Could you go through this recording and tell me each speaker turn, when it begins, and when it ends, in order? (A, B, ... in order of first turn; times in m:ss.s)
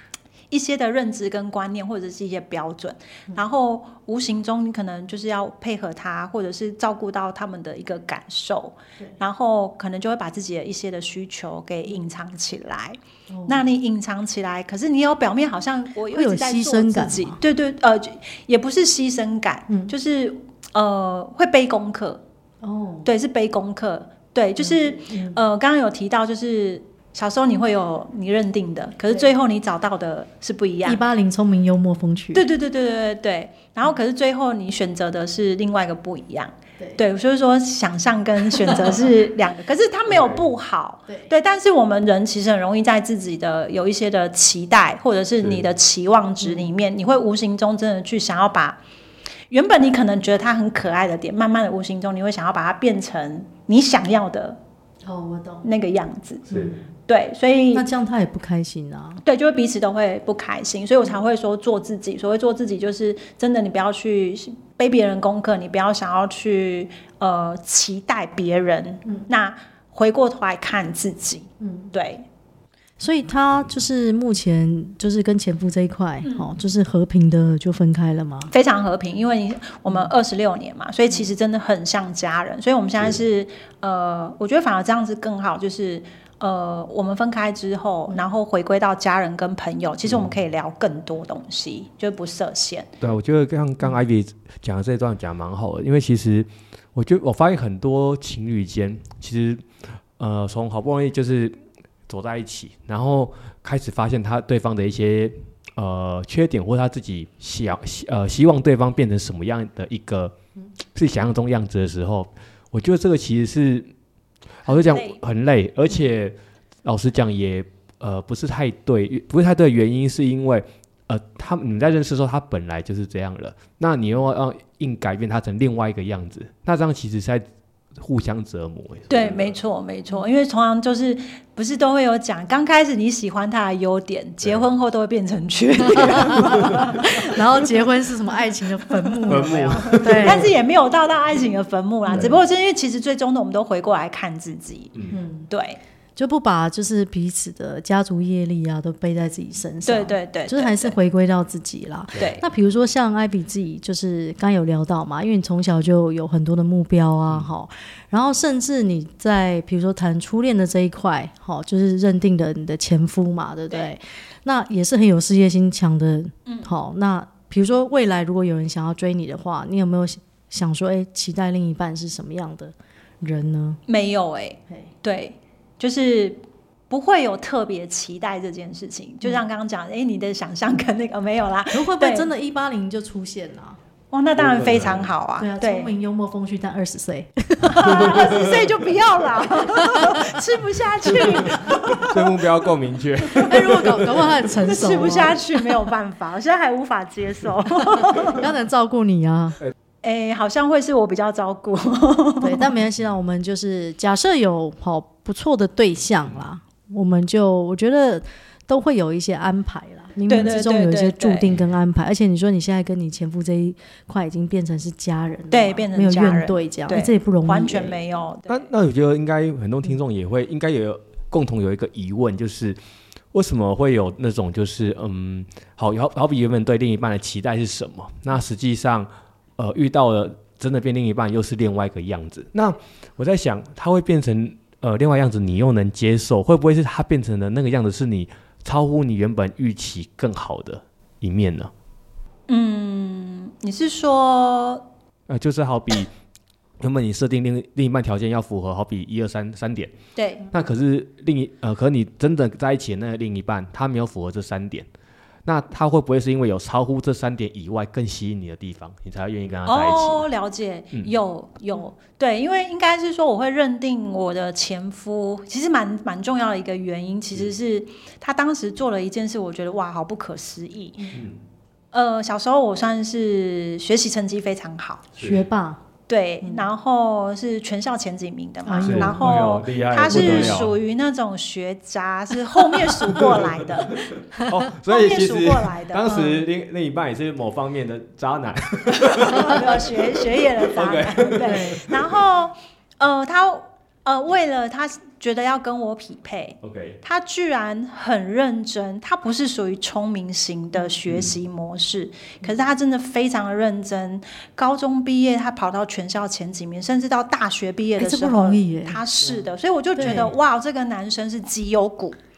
0:00.5-0:22.2 A
0:13.3-0:13.6 B
0:16.1-0:17.4 B
0:22.6-0:23.1 B
0:23.0-0:31.0 A
0:24.6-0:25.4 B
0:30.8-0:32.4 B
0:32.3-0:48.8 A
0:40.1-0:40.4 C
0:46.4-0:46.7 B
0:49.5-0:54.6 A
0:55.0-0:55.7 B
0:55.6-0:56.5 A
0:56.5-0:56.7 C
0:57.1-0:57.8 A
0:57.7-0:59.2 B
0:59.2-1:12.2 A
1:11.6-1:11.9 B
1:13.0-1:18.5 B
1:18.5-1:32.9 A
1:33.0-1:39.6 C
1:40.2-1:50.3 C
1:50.9-1:53.9 C
1:54.6-2:09.6 C
1:54.7-1:55.2 A
2:09.1-2:17.6 A
2:16.0-2:20.5 B
2:16.5-2:16.8 C
2:19.3-2:20.5 C
2:19.8-2:24.9 A
2:22.1-2:22.4 C
2:25.1-2:25.5 B
2:25.5-2:25.8 A
2:26.2-2:53.8 B
2:29.8-2:30.9 A
2:32.2-2:32.4 A
2:53.9-3:02.3 A
3:01.7-3:03.8 B
3:04.1-3:05.9 A
3:04.4-3:05.1 C
3:05.4-3:08.2 B
3:07.6-3:12.2 A
3:08.0-3:08.7 C
3:09.9-3:10.2 B
3:11.3-3:14.5 C
3:13.4-3:15.5 B
3:14.6-3:18.4 A
3:18.0-3:19.6 B
3:20.0-3:22.7 A
3:22.4-3:38.0 B
3:30.3-3:31.5 A
3:35.5-3:38.7 A
3:38.5-3:42.8 C
3:43.3-4:01.7 C
4:02.5-4:04.8 A
4:05.3-4:06.1 C
4:06.8-4:09.9 C
4:10.1-4:10.4 A
4:10.5-4:14.9 C
4:15.4-4:20.2 C
4:19.6-4:31.1 A
4:31.1-4:31.4 C
4:31.9-4:35.1 A
4:35.2-4:35.4 C
4:35.2-4:35.8 B
4:36.1-4:44.0 A
4:38.6-4:39.4 B
4:38.8-4:40.8 C
4:40.1-4:40.6 B
4:43.2-4:52.0 C
4:44.8-4:46.3 A
4:46.0-4:46.4 B
4:49.1-5:12.2 A
4:51.4-4:51.8 B
4:56.6-4:57.0 C
5:01.1-5:01.3 C
5:08.0-5:09.0 B
5:10.0-5:10.3 B
5:10.0-5:10.3 C